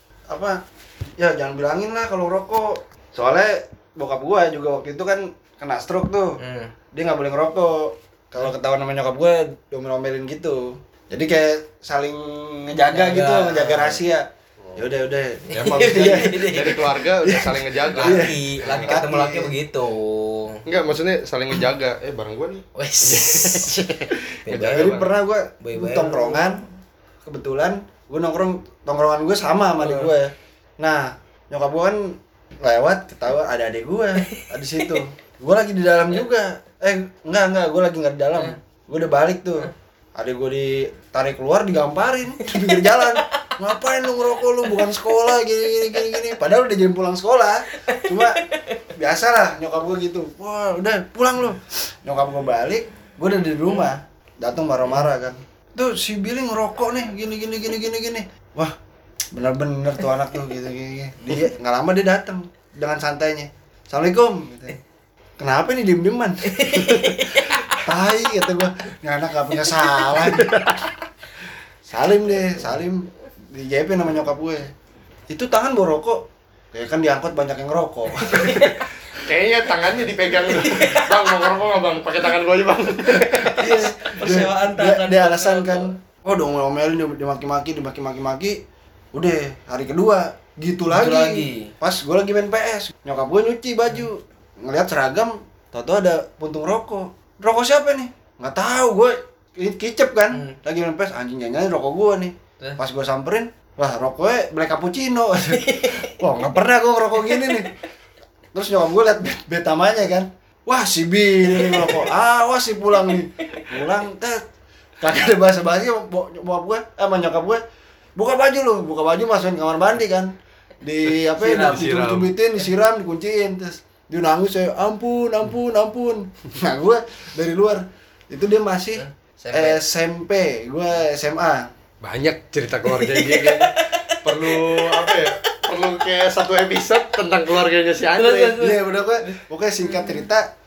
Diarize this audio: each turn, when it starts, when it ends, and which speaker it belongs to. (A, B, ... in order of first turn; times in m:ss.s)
0:00.3-0:00.6 A
0:01.2-0:06.4 A
0:06.4-0:06.7 B
0:06.9-0:19.6 A
0:12.9-0:14.0 B
0:15.5-0:19.0 C
0:15.5-0:17.0 B
0:17.8-0:20.6 B
0:20.6-0:25.1 C
0:22.7-0:24.9 B
0:24.6-0:26.6 A
0:25.6-0:26.6 B
0:27.2-0:48.4 A
0:29.8-0:30.1 B
0:34.3-0:35.0 B
0:42.5-0:43.1 B
0:47.8-0:48.8 B
0:49.0-0:58.7 A
0:59.3-1:04.8 A
1:05.4-1:10.6 A
1:06.4-1:07.7 B
1:10.3-1:10.8 C
1:11.9-1:14.7 A
1:15.3-1:18.7 A
1:18.2-1:18.8 B
1:18.3-1:18.7 C
1:19.2-1:23.7 C
1:20.4-1:21.5 B
1:23.2-1:28.6 A
1:23.2-1:25.9 B
1:29.1-1:47.7 A
1:30.9-1:31.7 B
1:40.3-1:40.6 B
1:45.5-1:46.2 B
1:47.2-1:47.8 B
1:48.5-1:54.4 A
1:51.5-1:52.0 B
1:55.0-1:57.6 A
1:58.2-2:11.7 A
2:01.3-2:02.3 C
2:01.4-2:01.9 B
2:09.0-2:09.8 B
2:12.0-2:18.6 C
2:12.8-2:15.5 B
2:18.1-2:20.2 B
2:18.4-2:20.5 A